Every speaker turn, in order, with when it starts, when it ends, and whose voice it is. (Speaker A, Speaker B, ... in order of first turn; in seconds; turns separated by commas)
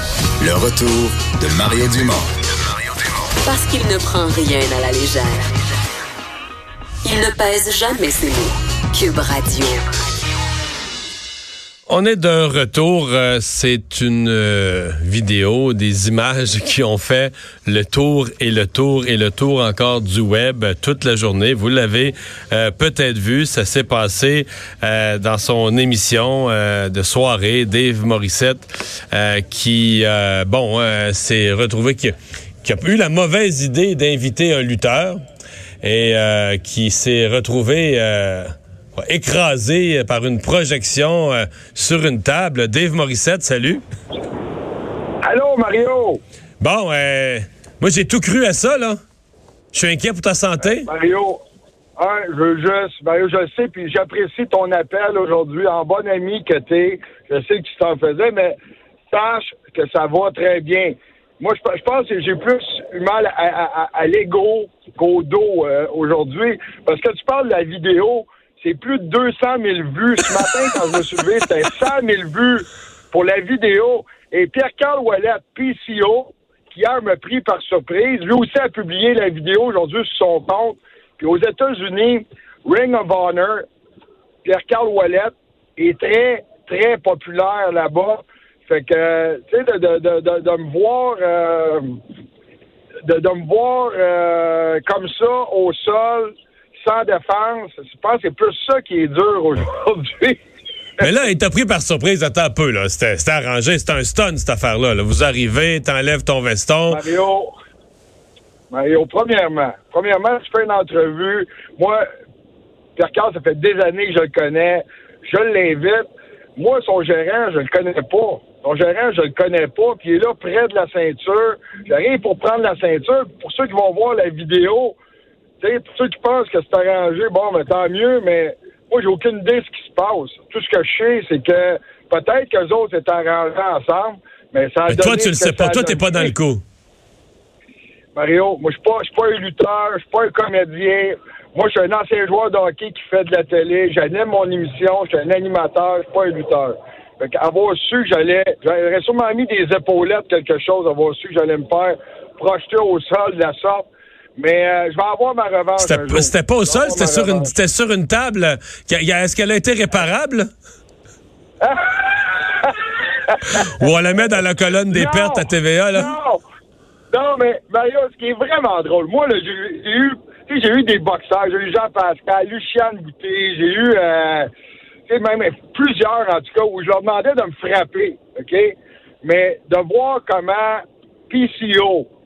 Speaker A: 0.4-3.2, Speaker B: 3.4-5.6, Speaker B: 7.0-10.0, Speaker C: 11.9-35.2, Speaker C: 35.8-43.8, Speaker D: 45.2-46.2, Speaker C: 46.6-49.0, Speaker C: 49.7-50.9, Speaker D: 50.6-51.4, Speaker D: 52.0-58.5, Speaker D: 59.1-83.7, Speaker D: 84.4-92.0, Speaker D: 93.0-100.4, Speaker C: 101.0-107.0, Speaker D: 106.9-107.5, Speaker D: 108.7-112.1, Speaker D: 113.0-125.0, Speaker D: 125.6-136.3, Speaker C: 134.9-136.6, Speaker D: 138.1-157.5, Speaker C: 155.8-160.5, Speaker D: 161.6-163.7, Speaker C: 163.6-166.1, Speaker D: 164.9-166.4, Speaker D: 167.1-174.5, Speaker D: 175.1-182.1